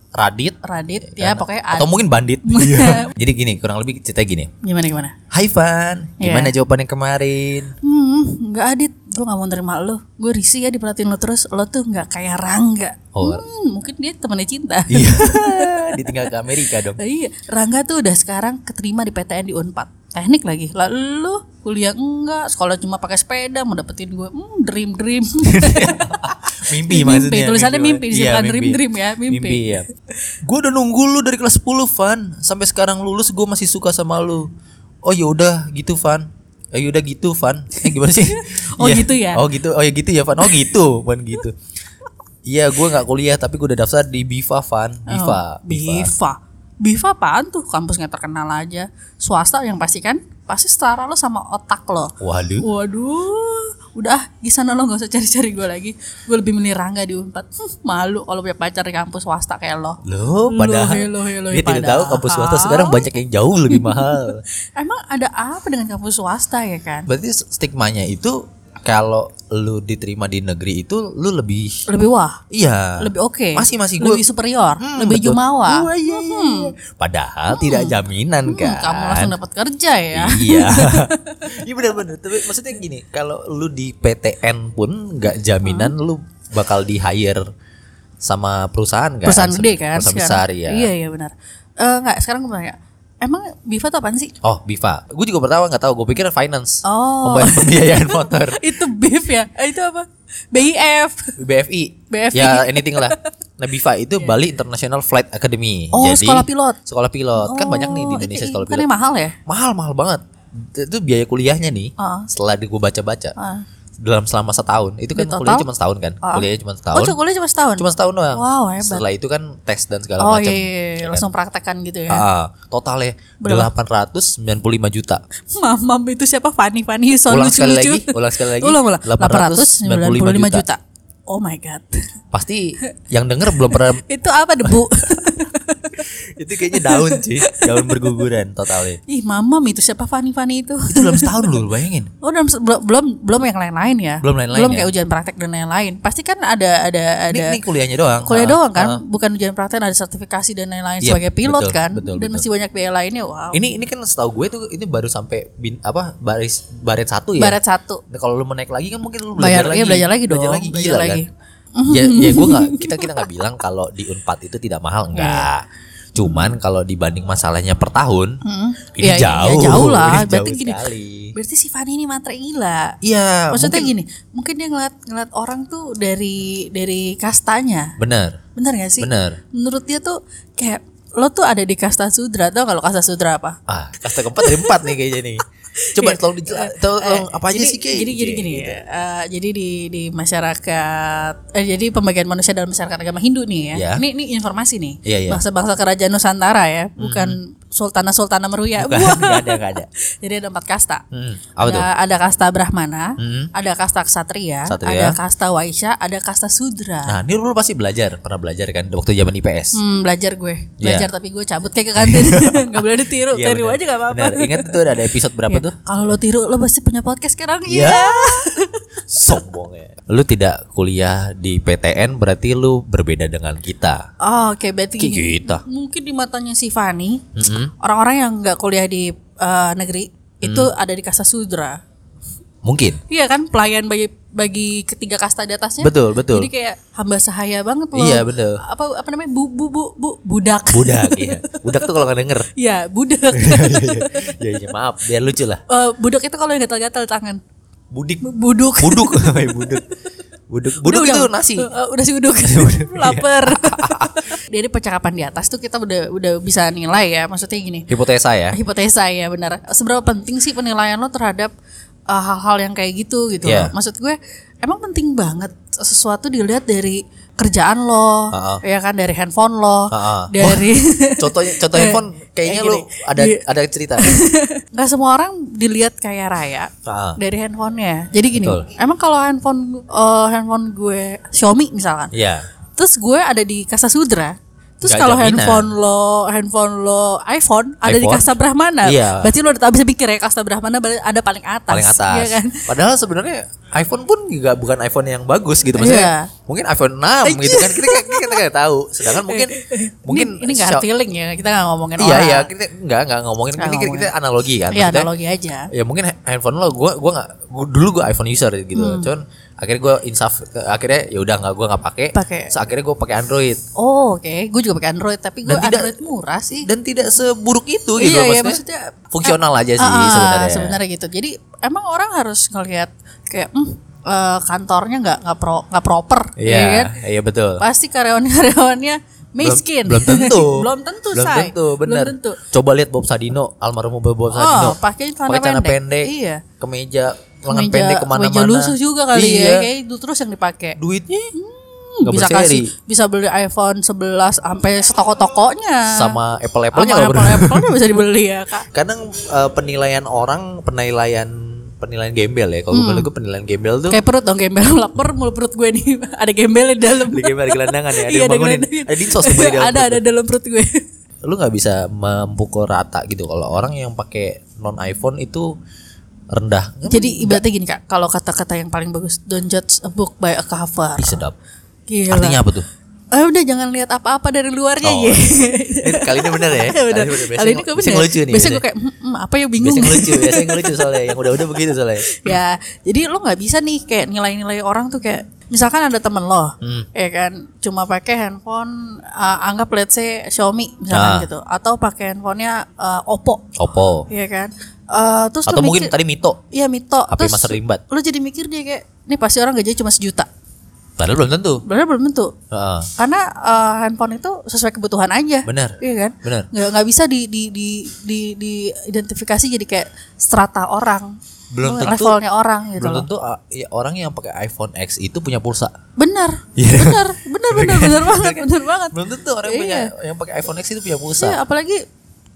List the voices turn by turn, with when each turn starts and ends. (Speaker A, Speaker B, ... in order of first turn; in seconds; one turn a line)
Speaker A: 0.1-4.5
Speaker B: 0.6-3.1
Speaker B: 4.6-5.2
Speaker A: 5.3-7.7
Speaker B: 6.2-6.5
Speaker B: 7.8-16.3
Speaker A: 13.1-13.4
Speaker A: 14.9-17.0
Speaker B: 17.0-29.8
Speaker A: 25.4-29.9
Speaker A: 30.4-34.5
Speaker A: 35.0-41.6
Speaker B: 38.3-39.4
Speaker A: 42.5-46.1
Speaker B: 45.1-63.0
Speaker A: 52.2-52.7
Speaker A: 60.0-64.4
Speaker B: 63.7-67.1
Speaker A: 67.1-71.9
Speaker B: 71.9-72.4
Speaker A: 72.5-74.2
Speaker B: 73.0-76.7
Speaker A: 74.8-79.3
Speaker B: 77.5-81.6
Speaker A: 80.1-87.4
Speaker B: 85.6-85.9
Speaker A: 88.2-90.9
Speaker B: 89.2-94.3
Speaker A: 94.4-98.6
Speaker B: 96.8-101.3
Speaker A: 101.4-108.8
Speaker B: 102.1-103.3
Speaker B: 105.9-106.8
Speaker B: 107.4-109.4
Speaker A: 109.5-113.3
Speaker B: 112.0-112.3
Speaker B: 113.4-113.6
Speaker A: 114.0-117.2
Speaker B: 115.2-115.7
Speaker B: 116.2-119.0
Speaker A: 117.8-121.2
Speaker B: 120.2-122.2
Speaker A: 122.1-125.2
Speaker B: 123.4-123.7
Speaker B: 125.5-132.0
Speaker A: 127.3-130.6
Speaker A: 132.3-134.0
Speaker B: 133.6-136.0
Speaker A: 136.3-139.0
Speaker B: 136.7-138.2
Speaker B: 139.1-141.6
Speaker A: 140.9-142.1
Speaker B: 142.2-147.6
Speaker A: 144.2-144.9
Speaker A: 147.3-149.0
Speaker B: 148.2-153.6
Speaker A: 151.0-152.4
Speaker A: 153.5-157.6
Speaker B: 157.4-158.0
Speaker A: 158.1-161.2
Speaker B: 159.4-163.3
Speaker A: 161.9-168.4
Speaker B: 165.1-165.5
Speaker B: 166.2-166.5
Speaker B: 168.4-172.9
Speaker A: 168.9-171.3
Speaker A: 173.0-173.9
Speaker B: 173.5-177.9
Speaker A: 178.0-178.4
Speaker B: 178.5-183.6
Speaker A: 179.0-179.4
Speaker A: 183.7-188.8
Speaker B: 184.2-184.9
Speaker B: 185.8-201.0
Speaker A: 193.7-194.0
Speaker A: 195.0-195.4
Speaker A: 197.0-197.4
Speaker A: 198.8-199.9
Speaker A: 201.1-201.9
Speaker B: 201.6-207.2
Speaker A: 203.2-203.5
Speaker A: 204.7-205.2
Speaker A: 207.1-209.8
Speaker B: 209.7-214.8
Speaker A: 210.8-211.1
Speaker A: 212.0-215.8
Speaker B: 215.5-219.3
Speaker A: 217.7-218.5
Speaker A: 219.1-224.1
Speaker B: 224.2-227.3
Speaker A: 225.0-225.6
Speaker A: 227.3-227.7
Speaker B: 227.8-231.8
Speaker A: 230.4-230.7
Speaker A: 232.6-233.0
Speaker B: 233.1-241.7
Speaker A: 235.8-236.5
Speaker A: 237.9-238.6
Speaker A: 240.7-242.5
Speaker B: 242.6-244.3
Speaker A: 243.3-245.6
Speaker B: 245.7-247.4
Speaker A: 247.9-248.3
Speaker B: 248.2-249.8
Speaker A: 248.8-249.8
Speaker A: 250.5-251.7
Speaker B: 250.8-257.9
Speaker A: 252.4-254.2
Speaker A: 257.9-258.6
Speaker B: 258.5-261.5
Speaker B: 262.1-273.4
Speaker A: 263.4-263.7
Speaker A: 268.3-268.6
Speaker A: 269.9-274.2
Speaker B: 274.0-282.1
Speaker A: 276.8-277.2
Speaker A: 278.3-278.7
Speaker A: 282.1-282.4
Speaker B: 282.8-292.6
Speaker A: 284.8-285.7
Speaker A: 287.8-288.3
Speaker A: 288.8-289.3
Speaker A: 291.7-300.8
Speaker B: 295.8-296.3
Speaker B: 297.2-298.4
Speaker B: 299.0-302.5
Speaker A: 302.0-305.1
Speaker B: 303.6-304.1
Speaker B: 304.7-305.7
Speaker A: 305.7-313.6
Speaker B: 308.7-309.1
Speaker B: 312.1-312.5
Speaker B: 313.8-316.7
Speaker A: 315.4-315.9
Speaker A: 316.6-320.8
Speaker B: 318.0-326.9
Speaker A: 326.4-327.6
Speaker B: 327.6-332.4
Speaker A: 329.4-339.7
Speaker B: 334.3-336.4
Speaker B: 337.5-340.8
Speaker A: 340.8-341.3
Speaker B: 341.3-346.2
Speaker A: 342.0-342.7
Speaker A: 345.9-347.7
Speaker B: 346.7-348.7
Speaker A: 348.7-354.0
Speaker B: 352.7-353.1
Speaker B: 353.9-360.8
Speaker A: 357.0-360.0
Speaker A: 361.2-365.5
Speaker A: 366.3-367.4
Speaker B: 366.9-371.2
Speaker A: 371.0-371.4
Speaker B: 371.9-372.4
Speaker A: 372.1-372.6
Speaker B: 373.1-393.4
Speaker A: 374.8-378.6
Speaker A: 379.6-382.4
Speaker A: 386.6-386.9
Speaker A: 390.9-391.3
Speaker A: 393.6-394.1
Speaker B: 394.1-395.9
Speaker A: 395.4-396.4
Speaker B: 396.5-400.3
Speaker A: 397.1-397.8
Speaker A: 401.0-401.6
Speaker B: 401.6-402.3
Speaker A: 402.5-402.9
Speaker B: 403.0-413.1
Speaker A: 405.4-406.5
Speaker A: 411.5-412.2
Speaker A: 412.8-415.7
Speaker B: 416.0-419.9
Speaker A: 416.6-421.4
Speaker B: 421.2-421.8